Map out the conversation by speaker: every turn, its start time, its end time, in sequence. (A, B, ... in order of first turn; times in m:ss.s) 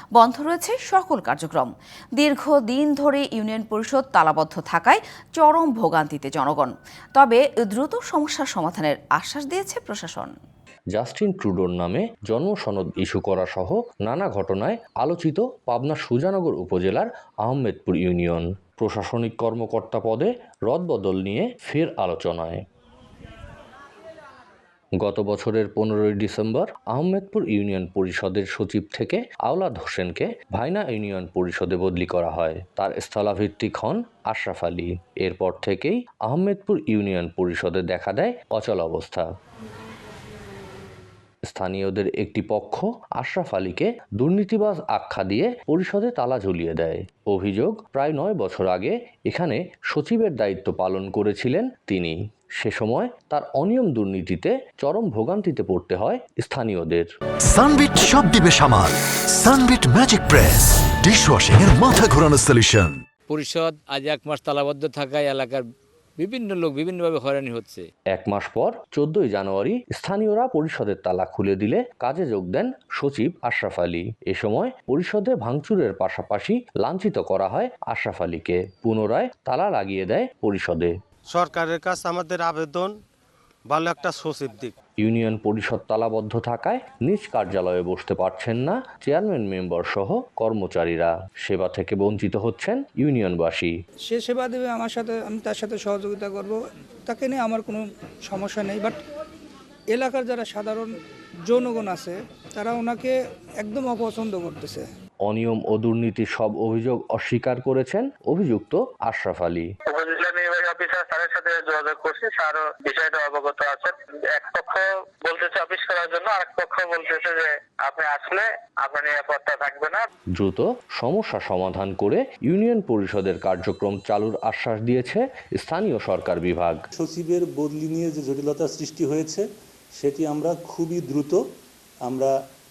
0:00.2-0:10.4 A
0:10.9-0:22.6 B
0:25.0-0:39.3 B
0:41.5-0:57.1 B
0:57.4-1:03.0 C
1:03.3-1:05.6 D
1:06.2-1:07.9 D
1:08.1-1:20.9 B
1:21.3-1:23.0 E
1:23.7-1:24.7 E
1:25.0-1:33.7 B
1:34.1-1:39.0 F
1:39.9-1:40.9 F
1:41.5-1:44.9 F
1:45.2-1:49.7 B
1:49.9-2:00.1 G
2:00.3-2:06.8 B
2:07.0-2:11.4 H
2:12.0-2:12.3 H